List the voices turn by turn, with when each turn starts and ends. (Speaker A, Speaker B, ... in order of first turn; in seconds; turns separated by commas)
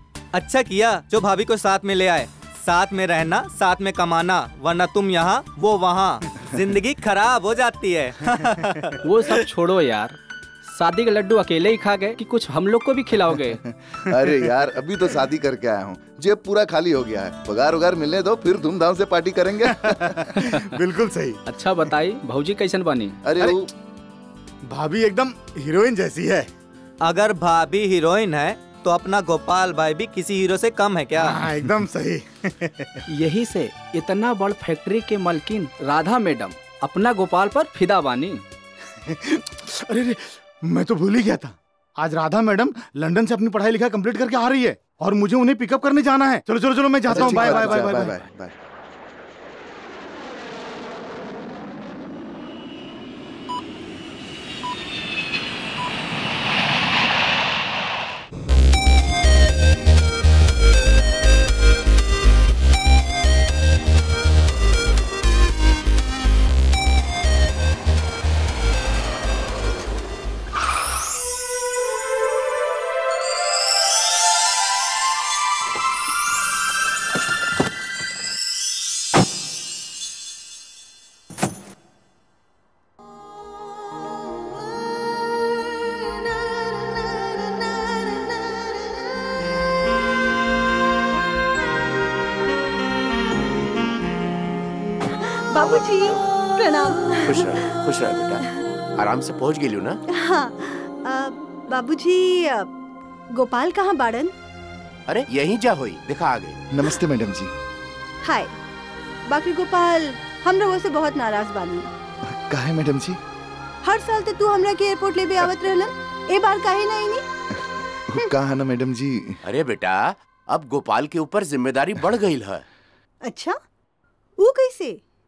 Speaker A: 0.3-8.9, Speaker B: 9.1-10.1, Speaker B: 10.7-13.6, Speaker C: 14.0-20.4, Speaker D: 19.7-21.4, Speaker B: 21.5-23.2, Speaker C: 23.2-23.7, Speaker D: 24.7-26.5, Speaker A: 27.0-31.4, Speaker D: 31.2-33.0, Speaker B: 34.1-38.4, Speaker D: 39.2-48.2, Speaker C: 47.1-48.5, Speaker E: 95.3-97.6, Speaker F: 95.6-96.2, Speaker F: 97.2-98.4, Speaker F: 99.0-100.0, Speaker E: 100.2-102.7, Speaker E: 103.3-104.3, Speaker F: 105.1-106.6, Speaker C: 106.7-107.5, Speaker E: 108.2-108.5, Speaker E: 109.3-111.9, Speaker C: 112.3-113.2, Speaker E: 113.8-117.2, Speaker C: 118.1-119.4, Speaker F: 119.5-122.6, Speaker E: 123.2-123.5, Speaker E: 124.4-125.0